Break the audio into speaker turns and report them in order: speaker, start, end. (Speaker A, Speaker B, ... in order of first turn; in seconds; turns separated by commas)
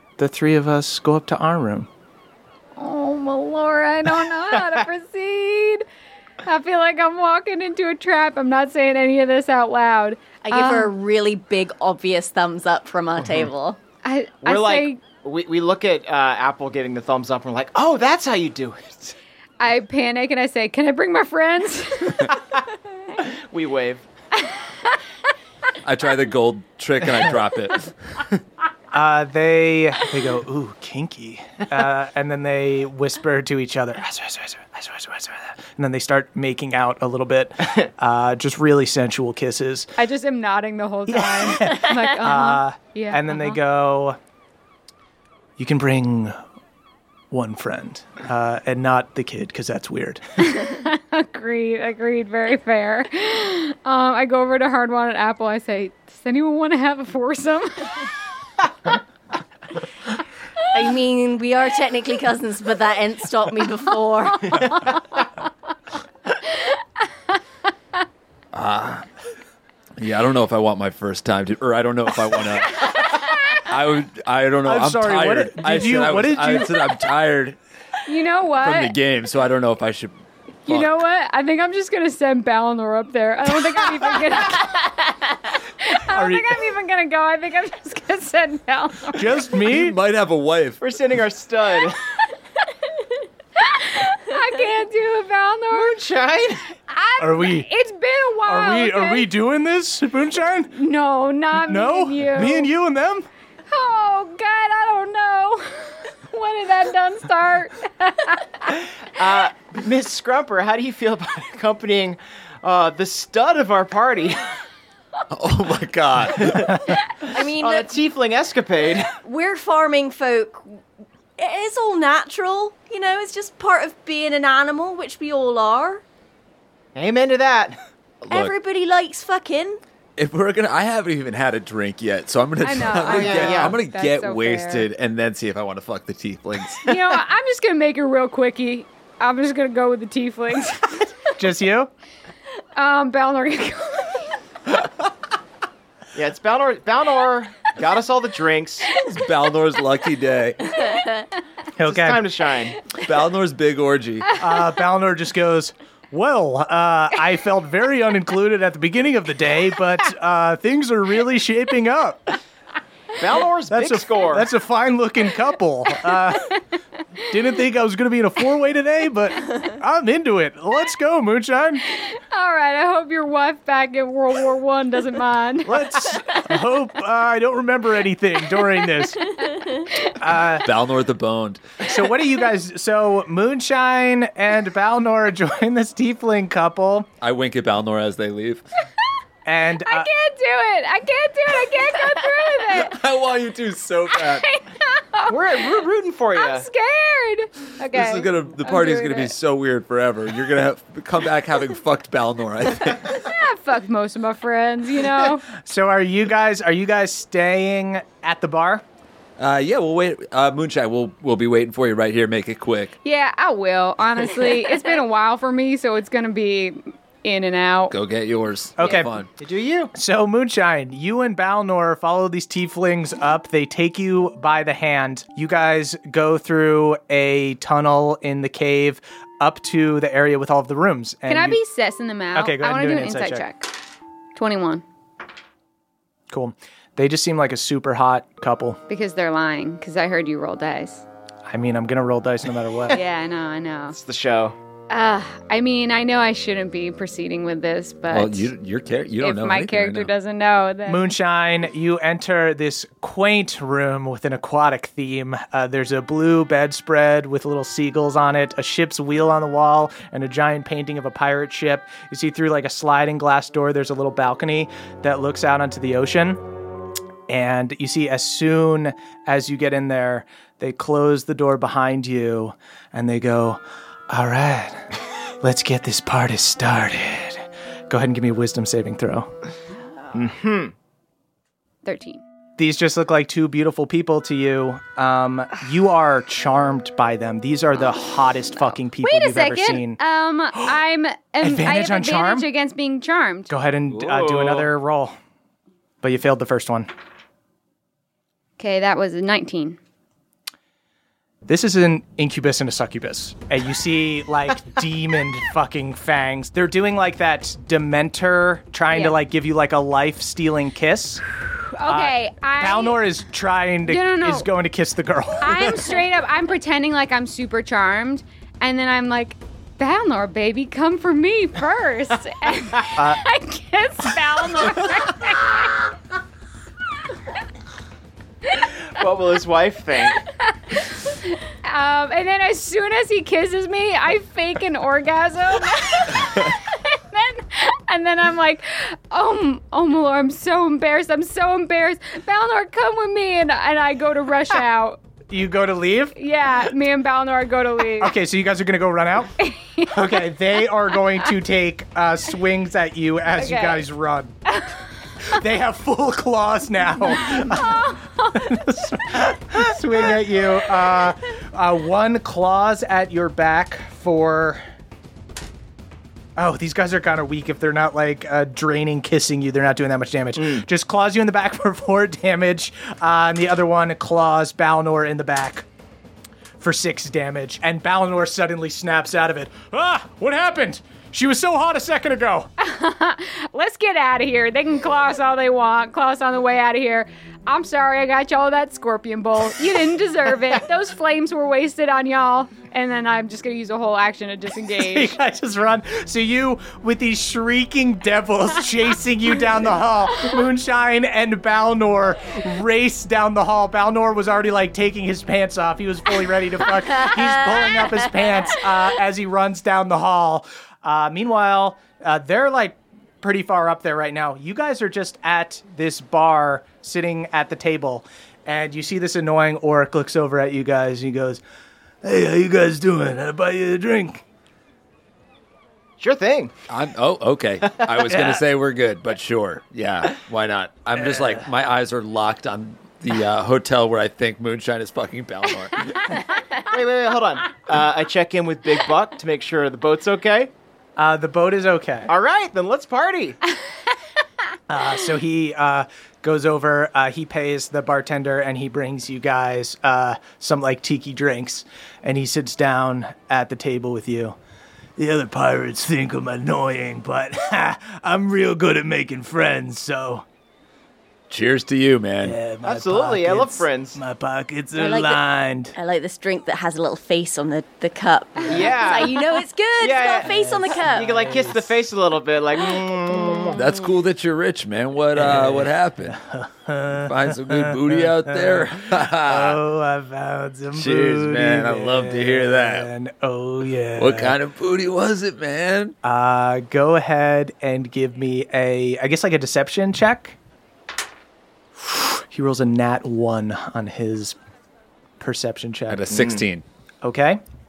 Speaker A: 0.2-1.9, Speaker B: 2.8-5.8, Speaker B: 6.5-10.9, Speaker C: 10.4-13.8, Speaker B: 14.0-15.0, Speaker D: 14.4-19.1, Speaker B: 19.6-22.3, Speaker D: 23.2-24.0, Speaker E: 25.8-28.4, Speaker A: 28.9-39.9, Speaker B: 40.0-43.6, Speaker A: 41.1-44.2, Speaker A: 45.6-46.4, Speaker A: 47.3-50.2, Speaker B: 50.4-58.1, Speaker C: 60.7-64.8, Speaker E: 68.5-69.1, Speaker E: 70.0-77.6, Speaker B: 72.7-73.6, Speaker A: 74.7-76.9, Speaker B: 78.1-79.0, Speaker E: 78.6-80.1, Speaker B: 80.7-84.9, Speaker B: 85.8-89.3, Speaker A: 86.1-86.6, Speaker A: 89.1-90.0, Speaker E: 89.7-90.8, Speaker D: 90.8-92.0, Speaker B: 93.6-96.0, Speaker D: 95.7-96.7, Speaker B: 96.9-99.3, Speaker A: 97.2-97.7, Speaker A: 98.5-100.7, Speaker B: 100.8-102.7, Speaker A: 101.5-103.3, Speaker B: 103.7-108.8, Speaker D: 109.1-114.5, Speaker E: 115.3-116.8, Speaker D: 116.5-116.8, Speaker C: 117.3-117.9, Speaker D: 117.4-119.2, Speaker C: 119.2-120.8, Speaker C: 121.4-126.0, Speaker D: 127.0-127.8, Speaker C: 128.3-129.8, Speaker E: 130.2-136.9, Speaker B: 132.6-134.9, Speaker D: 133.1-133.8, Speaker B: 136.8-141.3, Speaker A: 141.4-141.9, Speaker B: 142.8-144.4, Speaker D: 146.1-148.9, Speaker E: 148.9-150.7, Speaker A: 151.8-152.2, Speaker D: 151.8-152.8, Speaker E: 152.9-154.4, Speaker A: 154.4-162.4, Speaker D: 163.2-164.5, Speaker A: 163.7-166.5, Speaker A: 167.3-171.8, Speaker B: 171.9-175.9, Speaker A: 175.7-179.3, Speaker A: 180.2-180.7, Speaker E: 180.6-181.8, Speaker A: 181.8-187.1, Speaker E: 187.2-188.7, Speaker A: 189.5-190.1, Speaker B: 189.8-193.0, Speaker E: 192.7-194.5, Speaker B: 194.1-199.3, Speaker D: 195.3-196.7, Speaker E: 197.9-203.3, Speaker B: 203.2-205.5, Speaker A: 205.5-208.8, Speaker E: 209.4-212.9, Speaker B: 213.0-217.9, Speaker E: 217.9-219.3, Speaker A: 218.8-219.1, Speaker D: 219.4-219.9, Speaker A: 219.9-231.6, Speaker B: 231.3-233.7, Speaker A: 232.3-233.4, Speaker B: 234.3-234.8, Speaker A: 236.3-238.8, Speaker B: 238.9-241.1, Speaker A: 241.5-243.0, Speaker B: 242.9-244.0, Speaker D: 243.9-244.6, Speaker B: 244.9-248.5, Speaker E: 248.1-250.1, Speaker B: 249.2-251.0, Speaker A: 250.9-266.4, Speaker A: 267.3-274.9, Speaker A: 275.4-279.3, Speaker D: 280.1-280.7, Speaker B: 281.9-282.2, Speaker A: 282.6-290.0, Speaker B: 289.0-293.5, Speaker A: 291.4-292.5, Speaker A: 293.5-295.2, Speaker D: 293.9-294.7, Speaker A: 296.0-296.9, Speaker B: 298.6-299.8, Speaker A: 301.5-311.3, Speaker B: 308.9-309.2, Speaker B: 311.7-313.0, Speaker A: 311.9-315.9, Speaker B: 313.9-314.5, Speaker B: 315.4-325.9, Speaker A: 323.0-323.2, Speaker D: 328.7-330.2, Speaker B: 330.4-345.0, Speaker A: 345.3-346.2, Speaker B: 346.2-348.2, Speaker A: 348.0-349.4, Speaker B: 349.4-350.2, Speaker A: 349.9-354.3, Speaker B: 353.4-353.9, Speaker B: 354.5-354.8, Speaker A: 355.2-364.6, Speaker B: 357.1-358.5, Speaker A: 366.4-375.6, Speaker D: 370.4-370.6, Speaker A: 376.6-382.5, Speaker B: 382.6-395.1, Speaker A: 394.8-421.4, Speaker A: 422.0-424.2, Speaker D: 426.0-426.5, Speaker E: 426.7-436.1, Speaker A: 431.0-431.4, Speaker D: 436.7-440.5, Speaker A: 441.0-442.1, Speaker D: 442.1-443.4, Speaker A: 444.7-454.4, Speaker A: 455.0-460.2, Speaker E: 461.3-462.4, Speaker A: 462.2-465.8, Speaker D: 462.6-464.0, Speaker C: 464.8-465.2, Speaker C: 465.8-471.2, Speaker D: 468.5-469.2, Speaker D: 469.8-473.6, Speaker A: 470.2-471.7, Speaker E: 473.5-476.2, Speaker A: 475.1-484.4, Speaker E: 476.9-479.6, Speaker E: 480.7-482.9, Speaker E: 484.0-485.9, Speaker A: 486.0-490.4, Speaker A: 491.8-494.4, Speaker A: 495.2-496.3, Speaker E: 495.9-496.6, Speaker A: 497.0-497.4